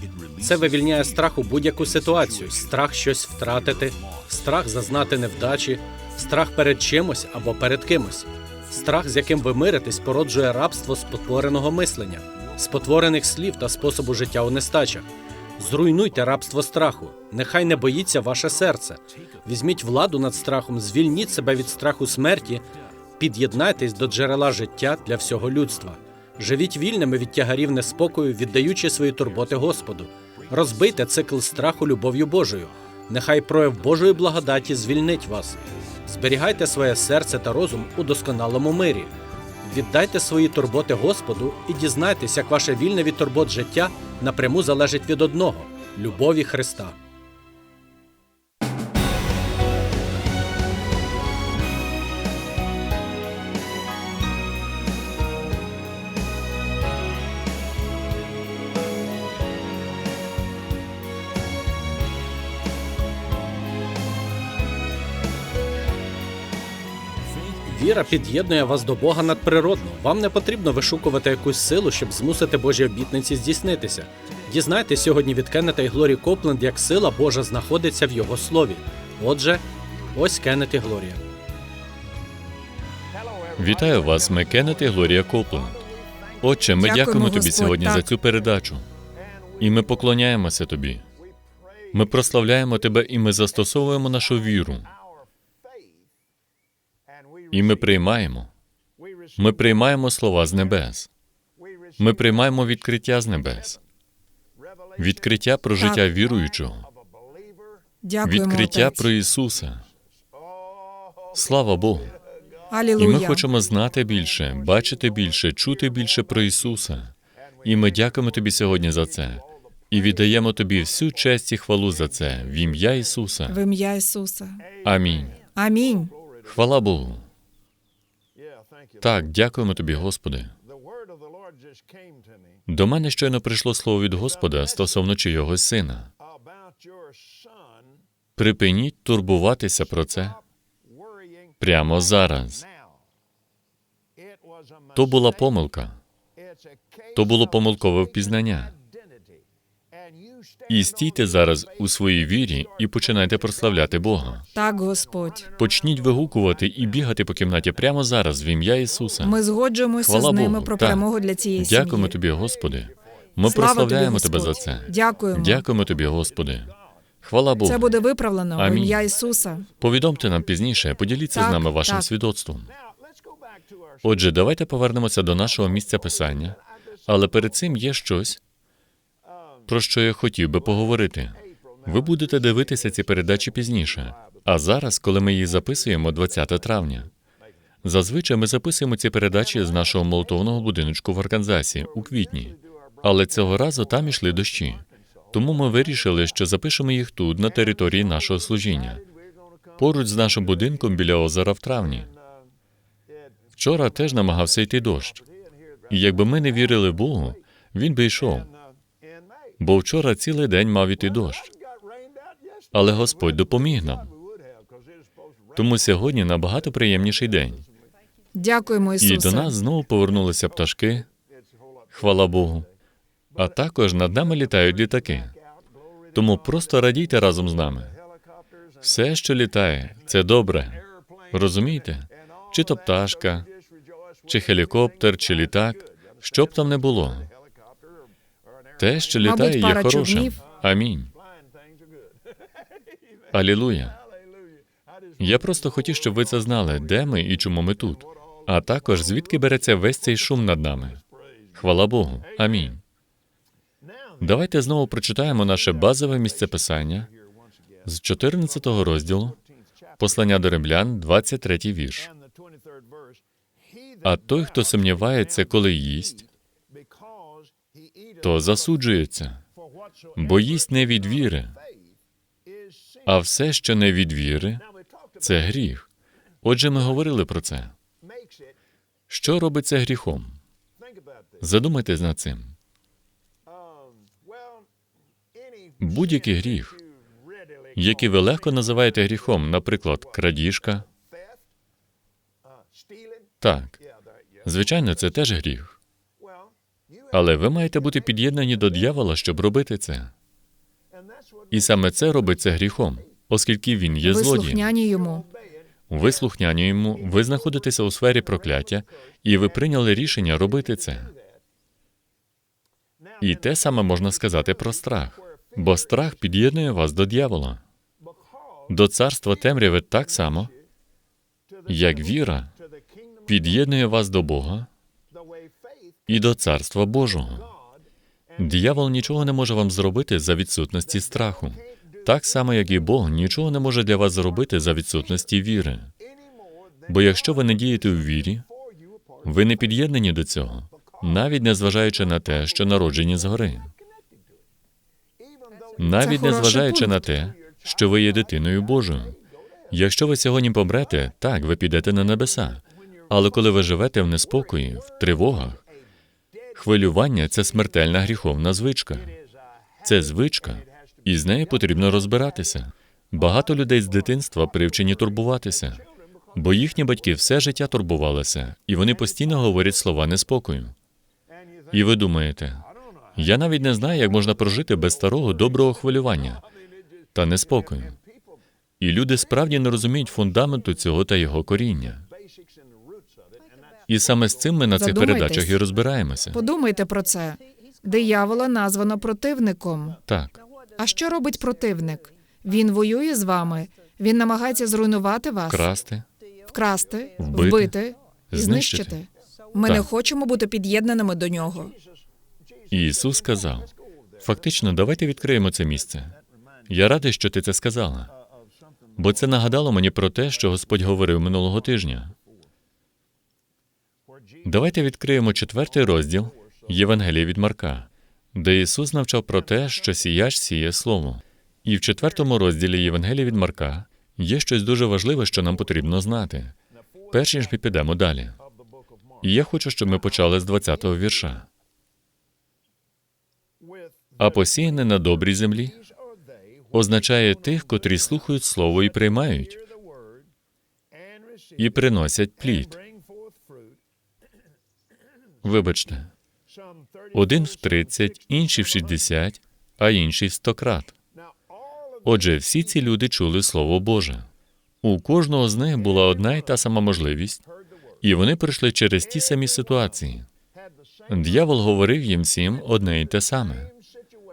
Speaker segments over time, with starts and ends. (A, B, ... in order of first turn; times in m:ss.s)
0:00.4-0:15.1 A
0:15.6-0:22.6 A
0:23.2-0:39.1 A
0:39.6-0:47.0 A
1:07.6-1:21.2 A
1:23.6-1:25.8 B
1:26.4-1:28.9 B
1:26.8-1:28.1 C
1:29.6-1:31.1 B
1:31.9-1:34.9 B
1:37.5-1:38.5 B
1:39.4-1:41.1 B
1:42.0-1:43.8 B
1:45.0-1:46.9 B
1:45.8-1:46.0 C
1:48.0-1:49.1 C
1:48.2-1:49.9 B
1:51.3-1:52.2 B
1:52.7-1:53.4 C
1:53.0-2:03.6 B
2:03.5-2:04.7 C
2:04.8-2:05.4 B
2:05.6-2:06.1 C
2:06.4-2:07.3 B
2:09.0-2:10.5 B
2:12.7-2:16.1 B
2:18.4-2:20.4 B
2:21.6-2:22.6 B
2:25.0-2:26.0 B
2:27.2-2:28.8 B
2:30.7-2:34.5 B
2:34.6-2:35.5 C
2:35.6-2:39.4 B
2:39.2-2:42.2 C
2:40.0-2:41.0 B
2:41.6-2:47.9 B
2:43.4-2:45.6 C
2:47.6-2:49.7 C
2:48.6-2:49.1 B
2:49.7-2:52.7 B
2:51.3-2:52.1 C
2:54.0-2:58.4 B
2:59.7-3:07.1 B
3:07.8-3:19.0 B
3:19.8-3:22.1 B
3:23.6-3:25.2 B
3:25.9-3:28.5 B
3:29.6-3:31.5 B
3:32.7-3:34.1 B
3:35.6-3:37.7 B
3:38.3-3:39.6 C
3:39.0-3:41.1 B
3:41.9-3:42.7 B
3:43.4-3:45.4 B
3:46.1-3:48.0 B
3:48.8-3:53.5 B
3:54.3-3:57.3 B
3:58.8-4:01.1 B
3:59.2-4:00.4 C
4:03.3-4:04.0 B
4:05.2-4:11.0 B
4:11.6-4:12.8 B
4:14.2-4:17.1 B
4:17.8-4:19.4 B
4:20.0-4:22.1 B
4:24.0-4:26.3 B
4:28.2-4:29.4 B
4:30.2-4:31.6 B
4:33.1-4:34.6 B
4:35.2-4:35.9 B
4:36.4-4:37.8 B
4:39.1-4:40.4 B
4:41.4-4:42.6 B
4:45.8-4:46.8 B
4:47.8-4:50.9 B
4:53.4-4:53.8 B
4:54.4-4:55.8 B
4:57.1-5:00.1 B
5:01.5-5:04.7 B
5:04.0-5:05.3 C
5:05.9-5:11.2 B
5:13.2-5:17.6 B
5:18.7-5:20.5 B
5:21.7-5:22.5 B
5:23.3-5:24.7 B
5:26.1-5:27.5 B
5:28.4-5:35.9 B
5:36.9-5:38.5 B
5:39.2-5:43.7 B
5:45.8-5:49.2 B
5:45.9-5:47.1 C
5:49.7-5:55.6 B
5:56.5-5:59.2 B
5:59.8-6:10.7 B
6:11.7-6:16.4 B
6:17.2-6:18.0 B
6:18.8-6:22.1 B
6:23.9-6:26.4 B
6:24.8-6:25.6 C
6:26.3-6:30.0 C
6:30.1-6:30.4 B
6:30.8-6:35.7 C
6:35.5-6:36.1 B
6:36.5-6:41.7 C
6:37.2-6:37.7 B
6:38.3-6:39.0 B
6:42.7-6:46.2 B
6:46.7-6:48.1 B
6:49.0-6:52.2 B
6:54.4-7:06.6 B
7:07.1-7:08.4 B
7:09.2-7:11.5 B
7:14.2-7:15.8 B
7:16.7-7:19.6 B
7:21.6-7:22.8 B
7:25.4-7:26.1 B
7:27.1-7:30.9 B
7:32.0-7:34.3 B
7:34.8-7:37.4 B
7:38.0-7:40.3 B
7:41.1-7:43.7 B